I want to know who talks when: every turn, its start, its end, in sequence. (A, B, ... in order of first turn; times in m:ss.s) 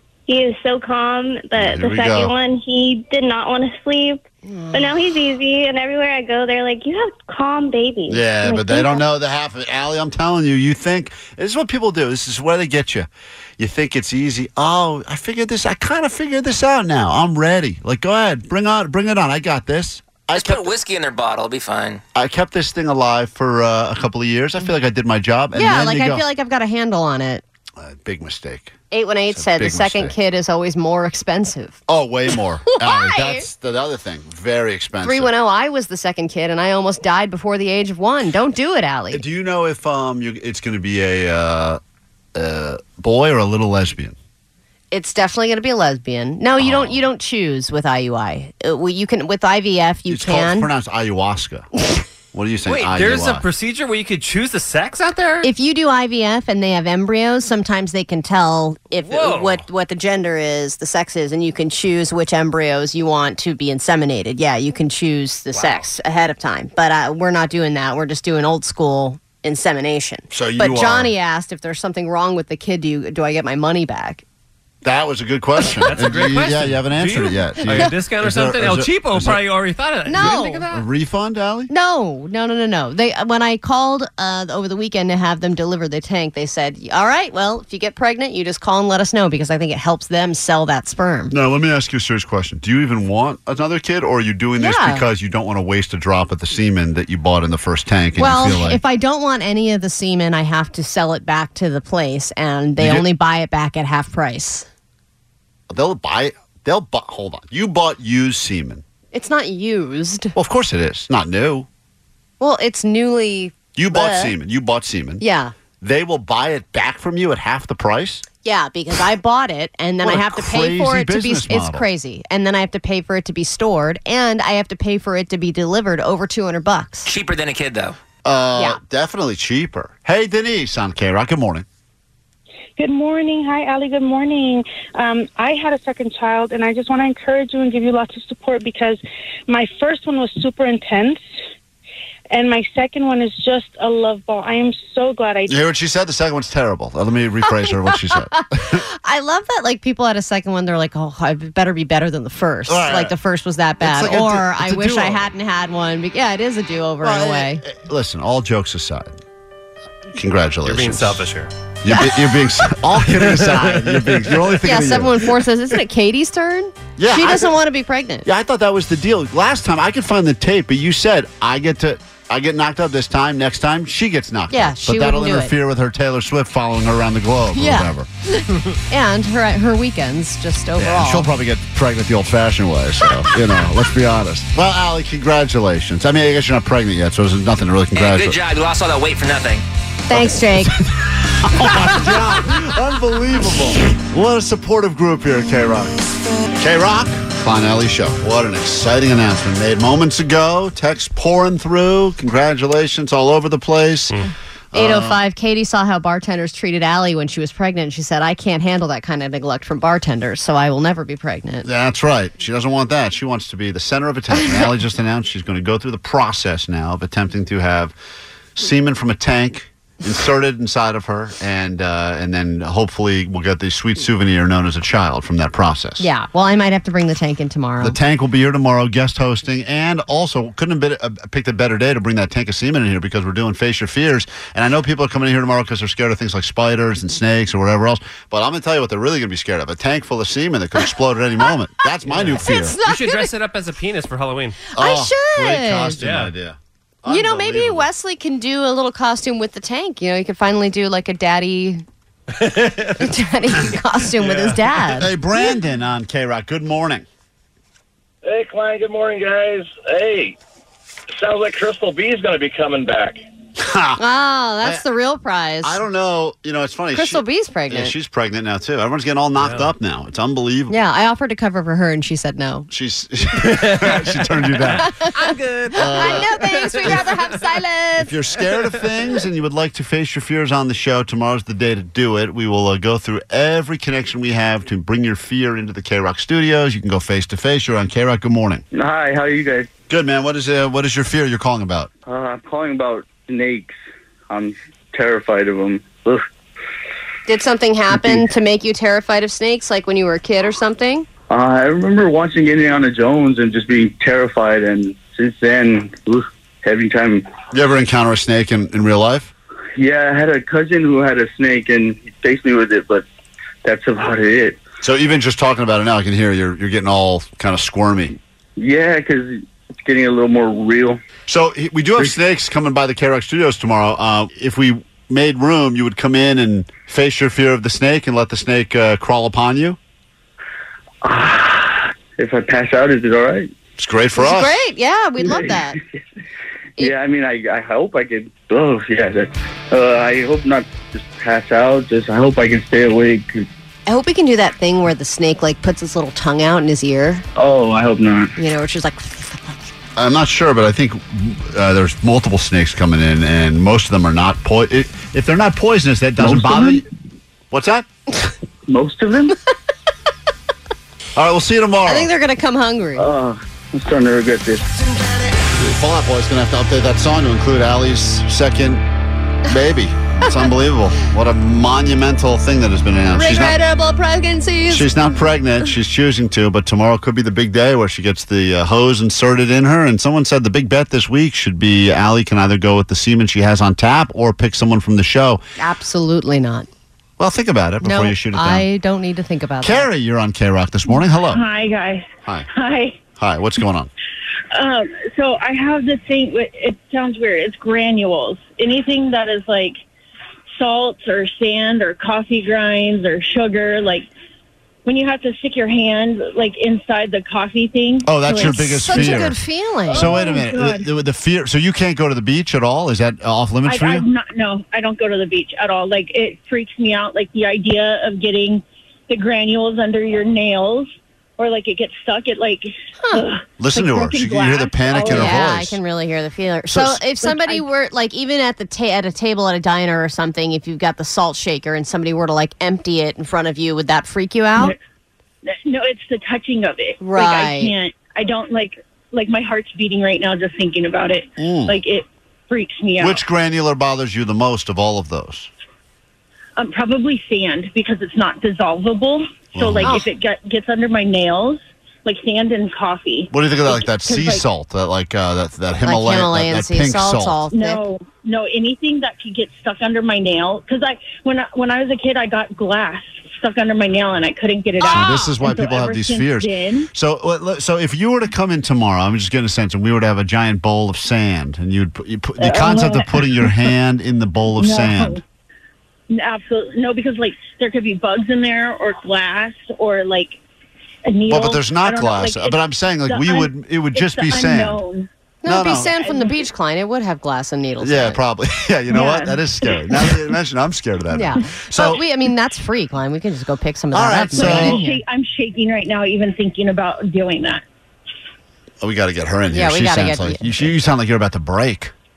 0:00.3-0:04.2 A
0:01.6-0:02.3 B
0:04.4-0:05.1 C
0:04.7-0:09.0 A
0:08.1-0:20.7 B
0:20.3-0:22.0 D
0:22.1-0:26.2 B
0:25.5-0:27.4 C
0:27.8-0:28.8 B
0:28.9-0:31.8 C
0:29.3-0:30.1 B
0:31.9-0:35.3 B
0:32.7-0:33.5 C
0:35.0-0:39.2 C
0:39.1-0:41.8 B
0:42.3-0:44.2 B
0:44.9-0:50.7 C
0:46.6-0:47.0 B
0:50.1-0:51.7 B
0:52.3-0:53.4 B
0:52.6-0:55.5 E
0:55.4-1:14.2 C
0:59.0-0:59.6 E
1:05.5-1:05.9 E
1:10.3-1:11.1 B
1:14.8-1:19.4 B
1:15.8-1:20.8 E
1:20.0-1:20.7 C
1:20.2-1:21.7 B
1:21.7-1:31.3 C
1:31.3-1:38.8 B
1:34.6-1:35.0 C
1:38.2-1:44.7 C
1:42.8-1:43.0 B
1:45.7-1:48.8 B
1:49.1-1:50.3 C
1:50.3-1:51.7 B
1:52.4-1:54.3 C
1:53.7-1:55.2 B
1:55.2-1:55.5 C
1:55.8-1:58.2 B
1:58.4-2:07.1 C
2:00.0-2:01.8 B
2:07.0-2:08.0 D
2:08.2-2:11.6 B
2:08.5-2:08.8 C
2:12.8-2:21.2 F
2:22.3-2:25.5 F
2:25.5-2:28.8 B
2:27.7-2:37.6 C
2:32.7-2:33.1 B
2:33.8-2:35.2 B
2:37.0-2:39.2 B
2:40.1-2:41.2 B
2:40.6-2:41.5 E
2:41.8-2:45.2 B
2:43.0-2:44.3 E
2:44.6-2:48.3 C
2:47.0-2:47.5 B
2:48.2-2:58.1 B
2:54.5-2:55.5 C
2:57.5-3:01.3 C
3:00.8-3:08.4 B
3:07.9-3:09.6 D
3:10.1-3:10.8 C
3:10.1-3:10.9 B
3:11.4-3:16.0 B
3:16.6-3:24.2 B
3:24.7-3:25.2 B
3:24.7-3:31.7 C
3:31.6-3:37.9 B
3:38.6-3:46.1 B
3:46.0-3:48.0 C
3:47.8-4:02.8 B
4:02.1-4:04.6 E
4:02.4-4:03.3 C
4:04.7-4:06.0 C
4:04.8-4:07.8 B
4:06.0-4:06.3 E
4:07.1-4:11.8 C
4:12.4-4:13.0 E
4:13.0-4:15.1 C
4:14.2-4:14.6 E
4:15.0-4:17.0 B
4:18.2-4:20.4 G
4:21.1-4:23.2 G
4:23.6-4:24.0 B
4:24.0-4:25.8 C
4:25.6-4:30.7 B
4:26.9-4:27.9 C
4:29.4-4:29.7 E
4:30.7-4:32.7 C
4:32.7-4:34.9 B
4:33.5-4:37.4 E
4:34.8-4:38.1 C
4:35.7-4:36.3 B
4:38.0-4:48.6 B
4:48.7-4:49.7 H
4:49.9-4:51.9 B
4:52.1-4:53.7 H
4:54.3-4:56.2 H
4:57.3-5:01.1 C
5:01.3-5:07.2 H
5:07.5-5:09.3 B
5:09.8-5:13.0 H
5:13.6-5:14.6 H
5:14.8-5:18.1 B
5:18.6-5:21.0 H
5:21.3-5:29.8 B
5:31.0-5:33.5 H
5:33.8-5:34.6 B
5:34.2-5:35.8 C
5:35.3-5:35.6 H
5:36.8-5:43.4 H
5:43.8-5:47.2 C
5:47.4-5:48.3 H
5:48.4-5:49.7 C
5:50.0-5:56.8 B
5:56.2-5:56.8 H
5:57.5-5:57.8 B
5:58.7-5:59.3 H
6:01.2-6:02.1 B
6:01.8-6:03.1 C
6:03.0-6:04.7 H
6:05.5-6:08.8 B
6:09.5-6:13.6 B
6:13.1-6:14.9 C
6:14.7-6:25.4 B
6:25.6-6:26.7 C
6:27.2-6:28.6 B
6:27.8-6:29.9 C
6:29.6-6:31.4 B
6:30.8-6:33.0 I
6:33.2-6:33.9 B
6:34.5-6:39.8 I
6:40.6-6:44.1 I
6:44.8-6:49.2 I
6:48.0-6:49.4 B
6:48.3-6:50.2 C
6:49.9-6:50.9 I
6:49.9-6:54.0 B
6:53.6-7:05.4 I
7:03.6-7:05.8 B
7:05.0-7:14.7 C
7:06.7-7:07.0 B
7:07.2-7:07.6 I
7:15.4-7:23.2 I
7:17.0-7:17.7 C
7:21.4-7:21.8 B
7:23.0-7:25.5 B
7:26.6-7:34.4 I
7:29.5-7:30.0 B
7:29.8-7:30.1 C
7:33.3-7:37.4 B
7:35.8-7:37.8 C
7:37.5-7:46.9 I
7:44.8-7:55.2 B
7:45.0-7:45.3 C
7:52.4-7:53.7 I
7:54.5-7:55.2 I
7:56.1-8:00.4 I
8:01.0-8:05.1 I
8:01.3-8:04.8 B
8:05.4-8:08.2 C
8:05.4-8:05.9 B
8:06.0-8:06.4 I
8:07.8-8:12.0 B
8:08.9-8:10.2 I
8:11.1-8:14.9 C
8:13.9-8:14.8 B
8:14.4-8:17.6 I
8:18.8-8:21.9 B
8:19.5-8:20.7 C